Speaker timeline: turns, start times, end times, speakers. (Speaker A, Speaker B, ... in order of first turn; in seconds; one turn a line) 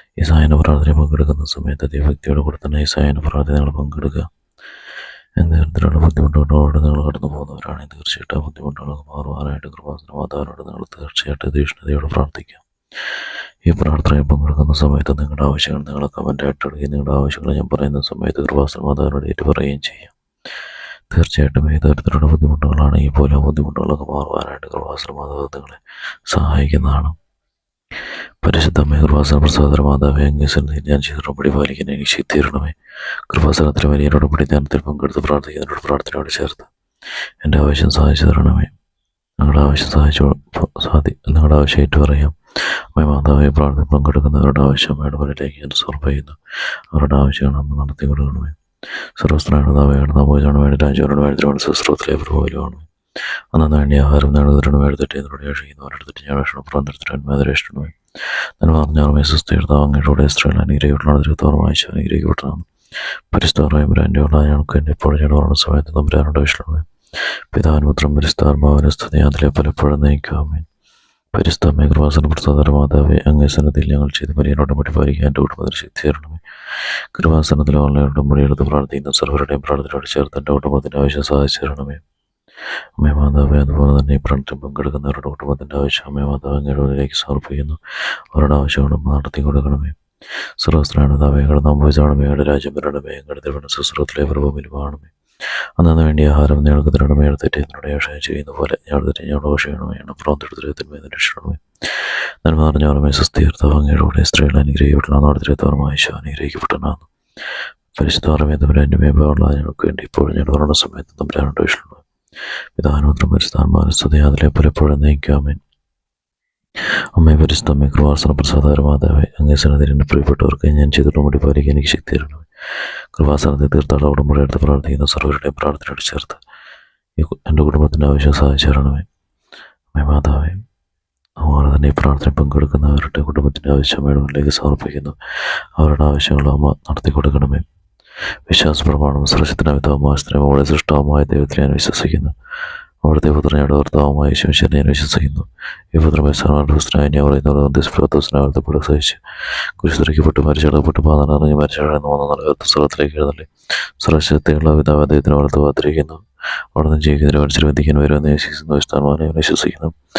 Speaker A: 0.2-4.3
Speaker A: 5.4-20.1
Speaker A: 21.1-27.1
Speaker A: 28.4-32.7
Speaker A: 33.3-36.7
Speaker A: 37.4-38.7
Speaker A: 39.4-42.3
Speaker A: 42.9-46.4
Speaker A: 46.9-48.5
Speaker A: 49.1-52.9
Speaker A: 53.5-57.9
Speaker A: 58.6-62.7
Speaker A: 63.3-66.8
Speaker A: 67.5-70.7
Speaker A: 71.3-76.4
Speaker A: 77.1-82.0
Speaker A: 83.0-87.8
Speaker A: 88.3-90.0
Speaker A: 90.6-95.1
Speaker A: 95.8-107.1
Speaker A: 108.0-112.0
Speaker A: 112.8-115.6
Speaker A: 117.2-122.5
Speaker A: 123.1-126.4
Speaker A: 127.2-129.1
Speaker A: 129.9-130.6
Speaker A: 131.4-135.2
Speaker A: 135.8-137.6
Speaker A: 138.5-142.3
Speaker A: 143.0-149.2
Speaker A: 149.8-153.5
Speaker A: 154.0-156.2
Speaker A: 156.7-159.9